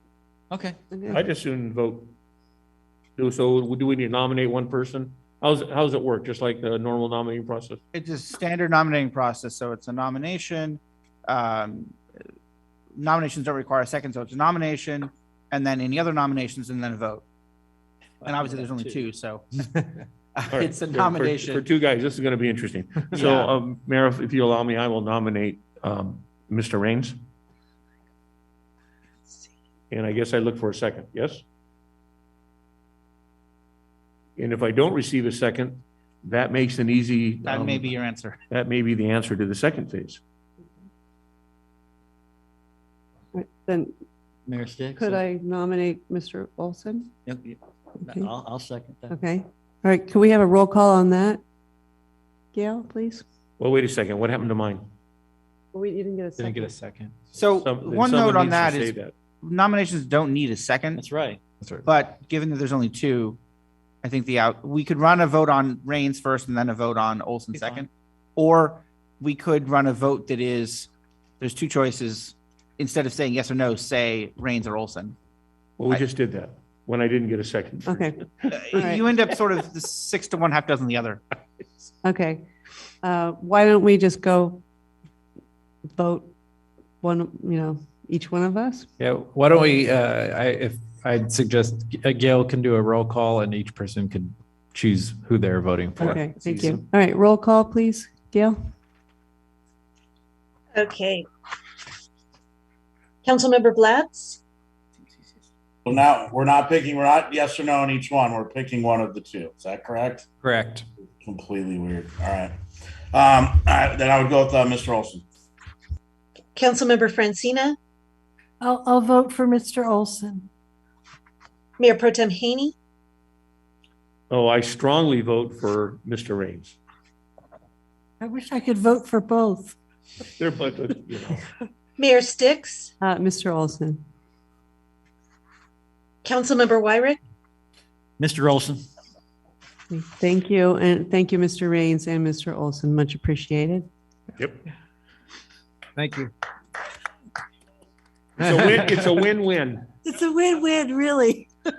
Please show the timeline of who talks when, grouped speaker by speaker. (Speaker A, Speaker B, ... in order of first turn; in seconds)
Speaker A: 0.9-1.2, 43.3-43.9, 45.0-47.1, 48.0-48.3, 49.1-51.4, 52.5-53.2, 55.7-56.7, 77.9-79.0, 82.0-82.5, 83.0-84.6, 86.0-86.3, 87.0-88.9, 96.0-98.6, 133.0-134.0, 139.9-143.9
Speaker B: 1.1-2.1, 3.2-7.8, 20.5-27.2, 29.9-31.4, 34.4-38.0, 38.5-40.2, 53.6-54.9, 57.6-59.1, 75.8-78.1, 96.0-96.8, 124.3-126.8, 130.4-131.5, 148.4-149.9
Speaker C: 7.9-12.0, 13.0-17.2, 18.2-19.7, 20.4-21.6, 23.1-23.5, 37.5-38.4, 57.4-61.0, 61.9-63.4, 64.0-70.9, 71.4-75.2, 78.5-81.2
Speaker D: 18.3-18.9, 44.5-45.2, 47.3-49.1, 60.9-61.4, 138.2-138.8
Speaker E: 56.4-57.2, 89.0-96.2, 110.4-110.8, 146.0-146.3, 148.6-148.9
Speaker F: 100.7-101.3, 103.2-104.4, 116.5-117.8, 121.8-122.7, 132.0-132.9, 136.2-137.2
Speaker G: 105.9-110.3, 111.2-112.6, 113.1-115.2
Speaker H: 118.6-120.5, 128.2-129.8, 150.0-151.5